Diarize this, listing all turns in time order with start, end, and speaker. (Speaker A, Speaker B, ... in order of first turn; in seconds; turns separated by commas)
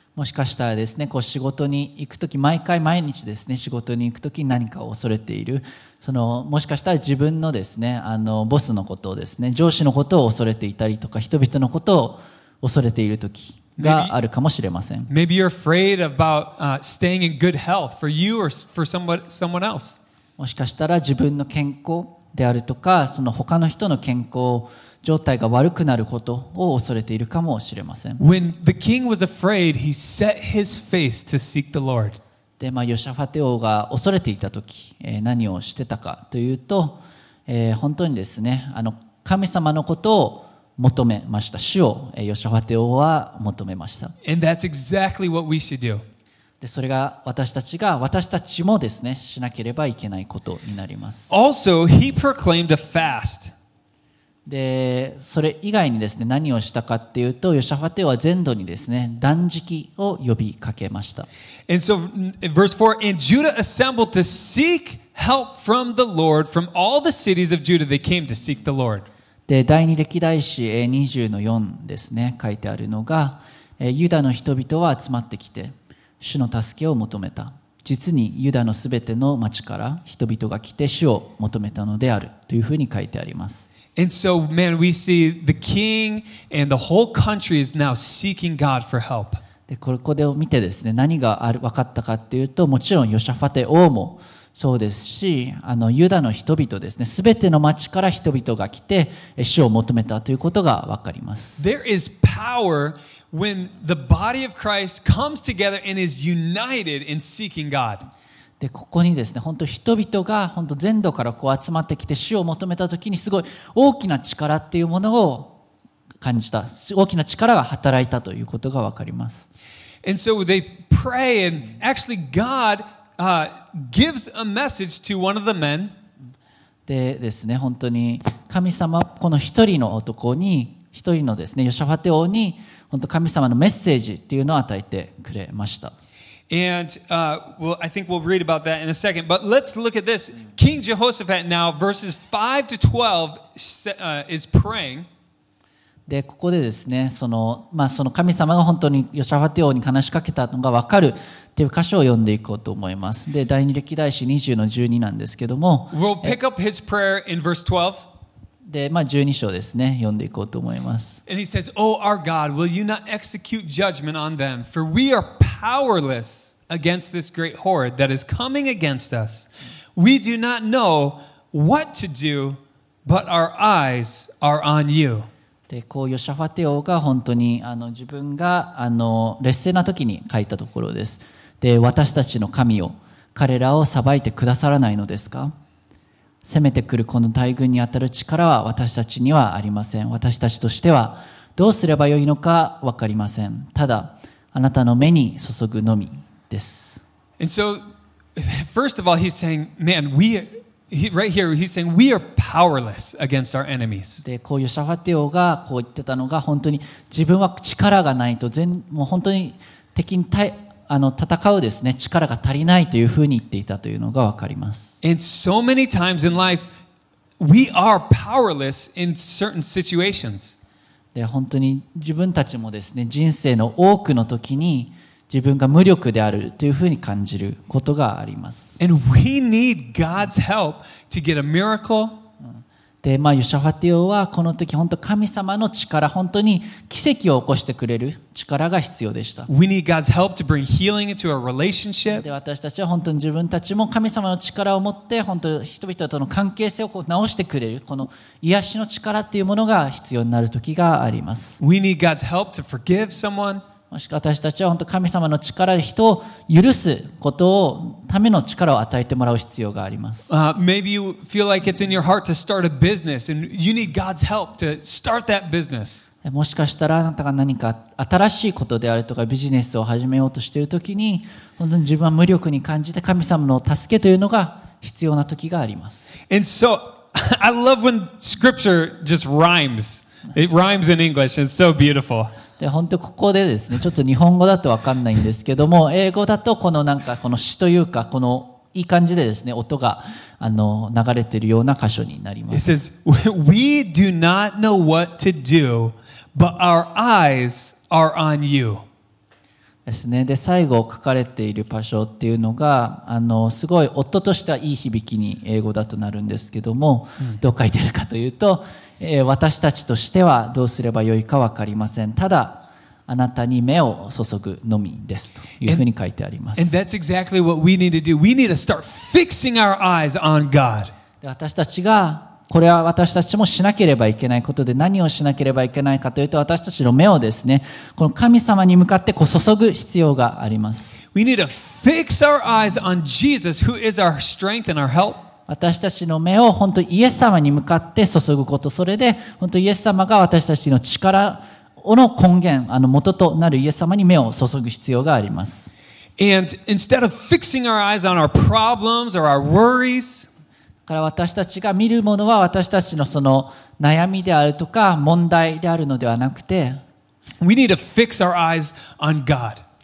Speaker A: 0.1-15.1, Speaker B: 13.8-14.1, Speaker B: 15.1-20.0, Speaker A: 20.4-28.2, Speaker B: 28.2-32.2, Speaker A: 32.6-44.1, Speaker B: 44.2-46.0, Speaker A: 46.6-51.3, Speaker B: 51.3-53.5, Speaker A: 54.5-61.3, Speaker B: 61.7-69.0, Speaker A: 69.5-83.6, Speaker B: 84.0-89.4, Speaker A: 89.7-101.6, Speaker B: 101.6-108.0, Speaker A: 108.6-115.5, Speaker A: 116.2-119.5, Speaker B: 120.0-125.9, Speaker A: 126.9-135.9, Speaker B: 136.5-145.1, Speaker A: 146.1-156.3, Speaker B: 155.9-158.0, Speaker A: 158.7-161.2, Speaker B: 161.3-175.3, Speaker A: 175.7-185.5, Speaker A: 186.4-197.0, Speaker B: 197.4-197.8, Speaker B: 198.3-204.2, Speaker A: 204.2-215.0, Speaker B: 215.0-216.7, Speaker B: 217.4-220.6, Speaker A: 221.1-228.8, Speaker B: 228.8-232.2, Speaker A: 233.0-239.5, Speaker B: 239.5-242.2, Speaker A: 242.1-251.6, Speaker B: 251.6-253.6, Speaker A: 253.9-260.3, Speaker B: 260.3-266.1, Speaker A: 266.2-276.1, Speaker B: 276.3-282.3, Speaker A: 282.6-292.8, Speaker B: 292.5-298.8, Speaker A: 299.9-316.7, Speaker B: 316.6-320.9, Speaker A: 321.2-331.0, Speaker B: 331.1-335.2, Speaker A: 335.5-345.7, Speaker B: 346.2-350.3, Speaker A: 350.9-356.8, Speaker B: 357.4-359.6